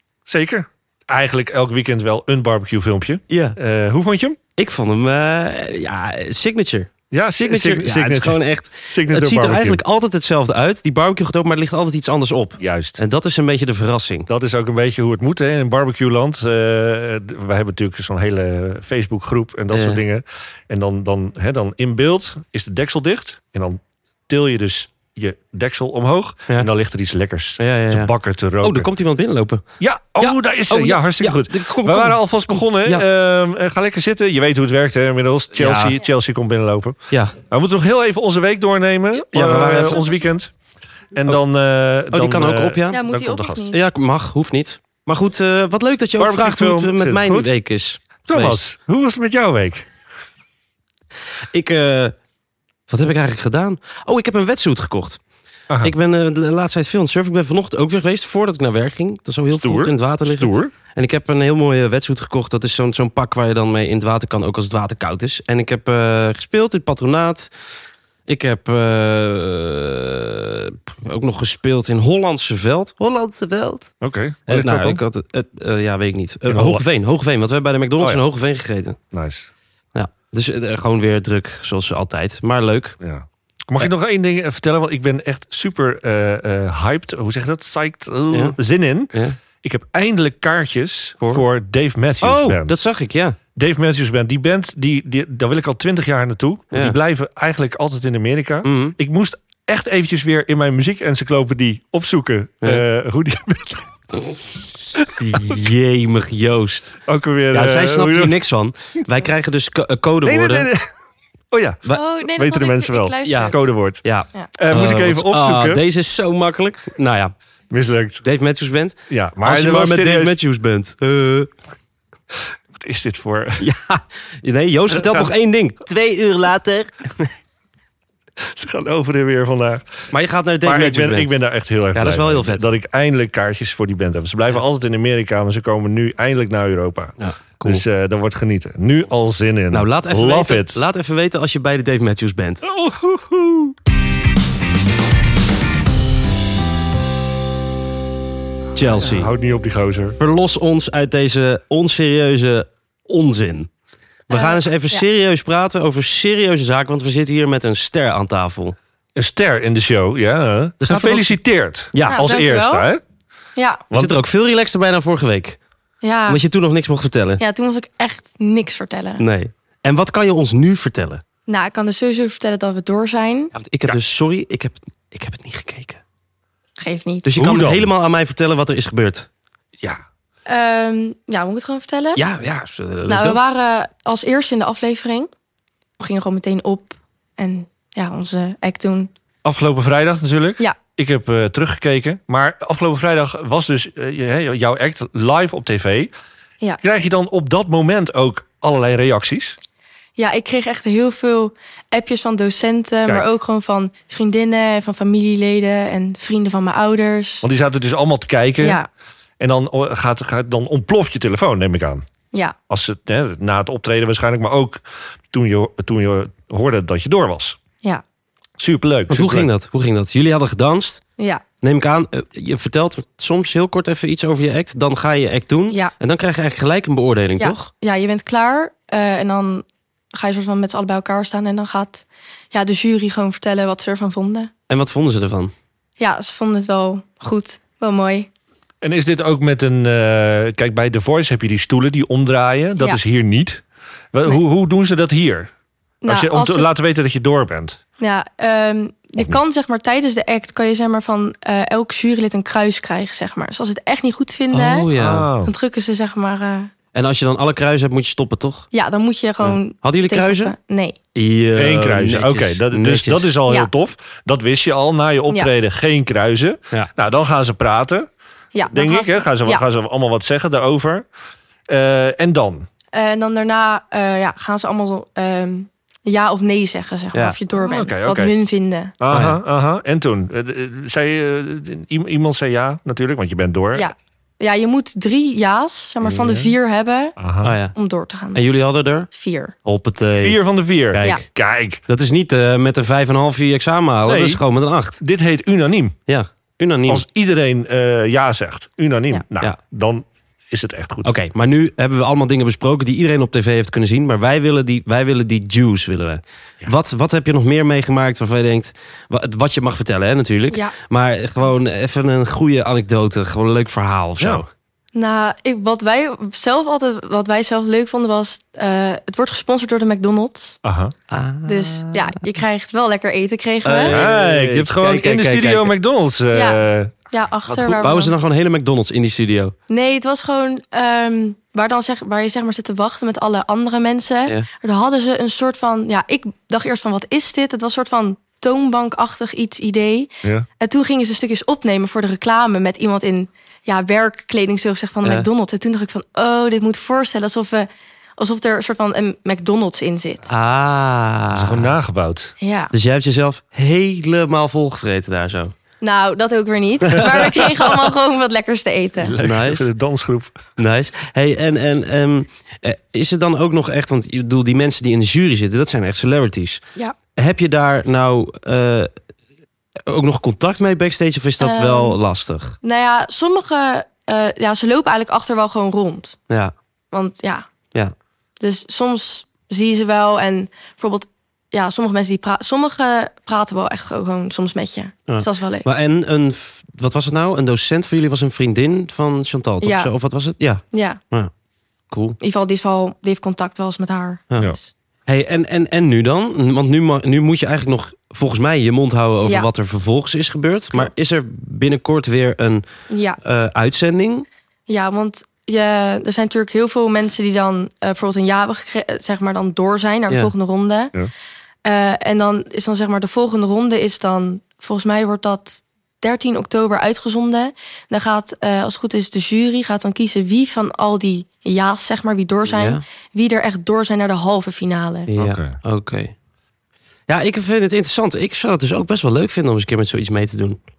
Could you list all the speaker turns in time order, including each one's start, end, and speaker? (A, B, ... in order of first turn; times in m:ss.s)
0:00.3-0:04.4 A
0:03.3-0:03.6 B
0:04.6-0:14.3 B
0:07.1-0:09.8 A
0:12.6-0:13.0 A
0:14.3-0:28.9 A
0:19.7-0:20.0 B
0:27.6-0:29.6 B
0:29.8-0:40.5 A
0:30.2-0:33.0 B
0:35.6-0:36.0 B
0:37.1-0:37.4 B
0:39.2-0:40.1 B
0:41.2-0:43.7 A
0:42.1-0:43.1 B
0:42.9-0:43.8 C
0:43.7-0:48.6 B
0:46.2-0:47.6 A
0:48.3-0:49.9 A
0:51.5-0:52.2 B
0:52.9-0:55.2 B
0:55.8-1:07.5 B
0:59.5-1:00.8 A
1:08.3-1:14.0 B
1:14.0-1:15.0 A
1:14.5-1:19.0 B
1:16.5-1:16.8 A
1:19.1-1:19.5 A
1:19.9-1:23.0 B
1:23.0-1:29.1 A
1:28.3-1:28.6 B
1:29.6-1:32.8 A
1:32.2-1:33.4 B
1:33.6-1:43.9 A
1:36.7-1:37.0 B
1:38.6-1:39.0 B
1:44.2-1:47.0 B
1:45.0-1:45.6 A
1:47.1-1:48.4 A
1:47.5-1:50.7 B
1:50.2-1:50.9 A
1:51.5-1:54.0 A
1:51.9-1:53.6 C
1:53.2-1:57.3 B
1:54.6-1:55.8 A
1:57.7-1:58.2 A
1:58.2-2:01.5 B
1:59.1-2:00.4 A
2:02.8-2:03.6 A
2:03.6-2:07.3 B
2:04.9-2:05.3 A
2:08.4-2:09.9 A
2:10.1-2:11.4 B
2:10.6-2:20.8 A
2:11.9-2:12.7 B
2:17.2-2:17.8 B
2:19.7-2:22.6 B
2:22.6-2:23.8 A
2:28.8-2:29.3 B
2:28.9-2:30.2 A
2:30.2-2:33.7 B
2:34.3-2:35.0 C
2:34.3-2:38.8 B
2:39.2-2:43.0 A
2:40.8-2:41.4 B
2:41.9-2:42.2 B
2:42.1-2:42.9 C
2:43.6-2:43.8 C
2:43.9-2:44.2 A
2:43.9-2:45.6 B
2:46.0-2:46.4 C
2:46.3-2:47.4 B
2:47.4-2:49.2 C
2:49.2-2:51.2 B
2:51.5-2:53.5 C
2:53.5-2:56.0 B
2:56.8-2:57.3 C
2:57.2-2:59.3 B
2:57.4-2:57.9 A
3:00.5-3:02.2 C
3:02.2-3:03.4 B
3:03.1-3:05.3 C
3:06.0-3:09.1 C
3:09.4-3:16.1 A
3:16.8-3:19.6 A
3:20.2-3:27.5 C
3:27.4-3:28.8 A
3:28.6-3:28.9 C
3:29.4-3:32.1 A
3:32.7-3:37.6 A
3:38.6-3:39.5 A
3:39.1-3:41.0 B
3:41.2-3:41.4 C
3:41.6-3:47.7 B
3:47.4-3:54.5 C
3:54.7-3:55.5 B
3:56.0-3:58.3 C
3:58.8-4:05.5 A
4:06.0-4:06.7 C
4:06.1-4:07.8 A
4:08.0-4:14.9 C
4:14.5-4:15.3 B
4:14.9-4:15.5 A
4:15.4-4:16.7 C
4:16.9-4:18.7 B
4:18.7-4:21.0 C
4:19.4-4:20.6 B
4:21.2-4:23.3 B
4:21.6-4:28.1 A
4:28.5-4:29.6 C
4:28.7-4:31.1 A
4:31.7-4:32.7 A
4:32.9-4:38.9 C
4:37.6-4:38.4 A
4:39.0-4:43.9 A
4:39.1-4:39.4 B
4:43.7-4:48.4 C
4:47.2-4:47.5 A
4:47.4-4:47.8 B
4:48.3-4:49.1 B
4:49.1-4:49.5 C
4:49.6-4:50.4 B
4:50.2-4:51.8 A
4:50.9-4:51.2 B
4:51.9-4:55.0 B
4:54.1-4:54.4 A
4:55.0-4:56.0 A
4:56.1-4:57.0 B
4:56.9-5:01.1 A
5:01.0-5:14.5 B
5:14.2-5:14.4 A
5:15.0-5:20.6 C
5:20.6-5:20.9 A
5:21.1-5:22.2 B
5:21.5-5:24.0 C
5:23.6-5:25.7 B
5:23.9-5:26.9 A
5:26.3-5:28.1 C
5:27.5-5:29.6 B
5:27.5-5:27.8 A
5:29.7-5:50.3 C
5:45.0-5:45.3 B
5:50.3-5:51.8 B
5:51.4-5:52.3 A
5:52.4-5:52.7 C
5:52.7-5:55.6 B
5:55.8-5:59.2 C
5:59.0-6:00.4 A
5:59.2-5:59.7 B
6:00.6-6:06.6 B
6:07.2-6:08.9 B
6:09.9-6:12.6 B
6:11.4-6:12.0 C
6:12.6-6:16.2 C
6:16.9-6:17.5 C
6:18.4-6:25.7 C
6:25.1-6:31.3 B
6:29.6-6:29.9 C
6:30.7-6:31.0 C
6:31.9-6:32.2 B
6:32.2-6:34.7 C
6:34.3-6:34.6 B
6:35.1-6:42.6 B
6:42.9-6:43.2 C
6:43.2-6:44.3 B
6:44.7-6:50.9 C
6:51.6-7:05.1 C
7:02.4-7:02.8 B
7:05.1-7:06.2 B
7:05.2-7:05.6 A
7:07.1-7:10.6 B